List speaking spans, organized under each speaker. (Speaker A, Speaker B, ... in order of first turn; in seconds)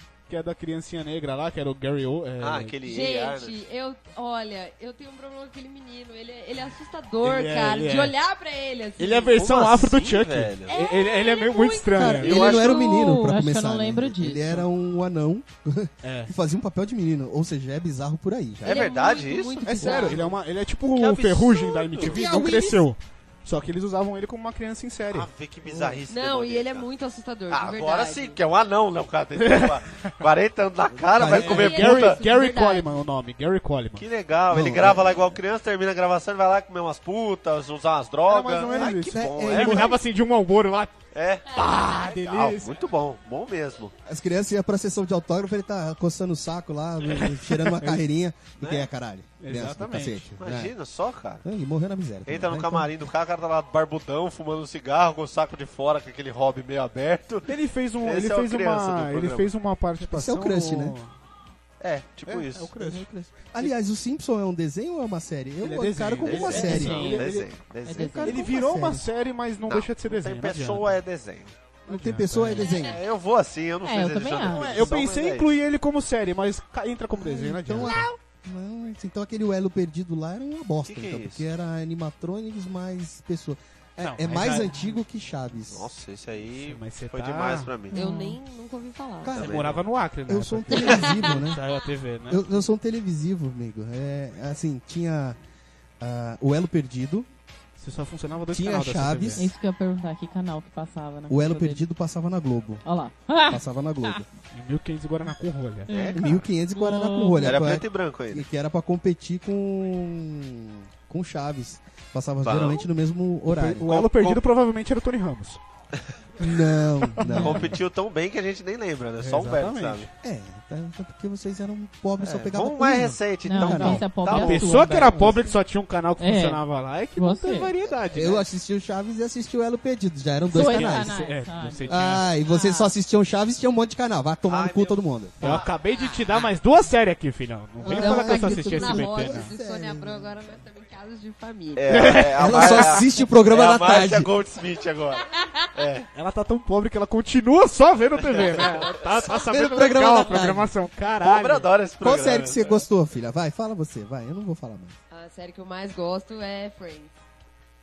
Speaker A: 0.3-2.8, 7.2-8.2, 9.0-12.6, 16.0-16.3, 19.6-25.3, 29.4-30.1, 31.0-34.0, 38.2-41.0, 41.5-42.7, 47.1-48.0, 49.4-50.4, 57.5-61.1, 62.2-63.7, 65.6-67.5, 68.2-71.0, 71.9-72.8, 74.4-78.1, 84.0-85.0, 86.4-87.7, 89.3-92.5, 97.8-99.5, 104.5-106.0, 113.5-115.6, 116.4-117.7, 119.2-120.1, 123.6-128.4, 130.5-132.2, 135.4-139.5, 141.9-143.0, 146.1-151.7
Speaker B: 2.4-3.6, 9.3-10.8, 12.2-12.9, 18.6-20.3, 20.9-22.5, 25.1-26.9, 27.5-32.2, 34.0-40.0, 41.1-43.9, 48.6-48.9, 50.4-51.4, 52.2-59.5, 61.8-62.7, 66.2-68.4, 69.7-71.5, 72.7-75.5, 80.8-81.5, 85.7-88.0, 89.3-89.8, 105.9-106.4, 107.4-108.5, 112.4-112.8, 113.8-114.4, 117.3-120.1, 122.2-124.9, 134.5-135.7, 141.7-146.1, 148.2-149.1, 151.2-152.8
Speaker C: 2.8-9.4, 10.7-13.3, 18.6-20.2, 26.1-28.4, 31.4-32.9, 72.6-73.0, 87.9-89.4, 90.7-91.4, 137.8-142.3, 145.3-145.7, 155.1-157.2
Speaker D: 11.9-18.9, 22.0-22.8, 25.6-26.0, 31.1-31.8, 34.5-35.4, 38.6-40.0, 44.0-50.7, 51.4-52.9, 60.0-61.0, 62.8-67.2, 67.9-69.1, 71.9-73.0, 77.2-85.9, 89.2-89.7, 90.3-91.6, 92.3-95.4, 96.0-97.3, 98.5-99.5, 101.3-102.8, 103.4-104.3, 106.1-114.0, 116.4-117.8, 120.2-124.0, 128.1-131.2, 131.9-135.6, 137.8-140.4, 142.3-144.3, 149.5-150.7, 152.0-154.9
Speaker E: 13.0-14.6, 66.5-67.2, 67.8-68.4, 73.8-74.9, 87.9-88.4, 99.4-101.8, 102.8-104.2, 105.9-107.6, 117.2-117.6, 123.4-125.5, 126.2-126.6, 127.2-127.7, 130.5-132.9